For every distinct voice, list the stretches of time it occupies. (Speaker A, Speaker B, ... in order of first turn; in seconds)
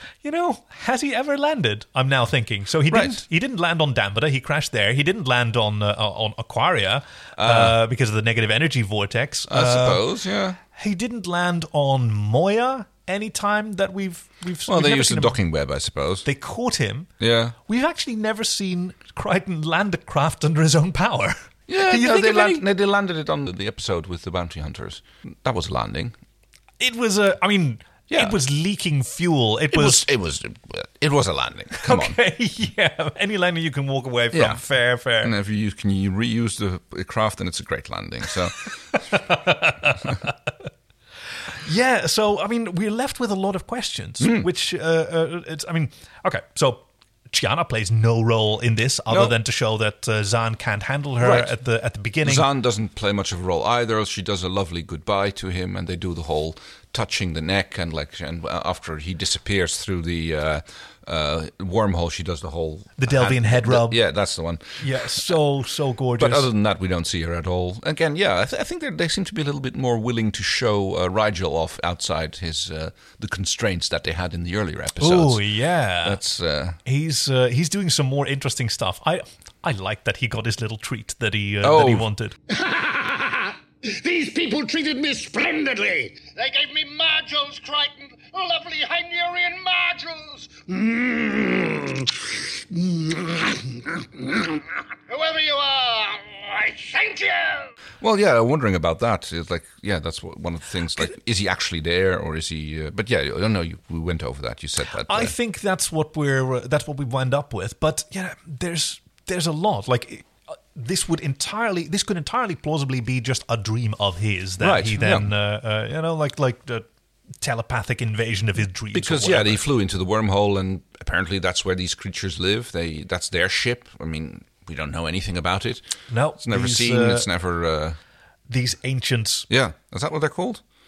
Speaker A: 0.2-10.0, 10.6-15.4, 16.2-17.1, 17.6-22.6, 26.8-30.0, 31.8-35.3, 38.9-40.3, 41.6-52.5, 63.0-64.0, 64.8-66.5, 75.0-76.2, 76.8-82.3, 105.0-116.8, 117.4-119.6, 126.1-127.3, 128.5-129.5
Speaker B: 2.9-3.2, 7.4-7.8, 9.5-10.6, 14.7-16.2, 17.2-17.6, 21.7-26.1, 28.1-28.4, 29.7-32.1, 34.3-34.6, 35.2-39.0, 44.2-44.5, 49.1-49.4, 51.2-51.5, 52.2-65.4, 66.2-75.5, 76.0-76.8, 81.6-82.1, 98.0-105.3, 114.6-115.3, 118.9-125.8, 126.4-128.0, 129.5-130.6
Speaker C: 82.5-97.7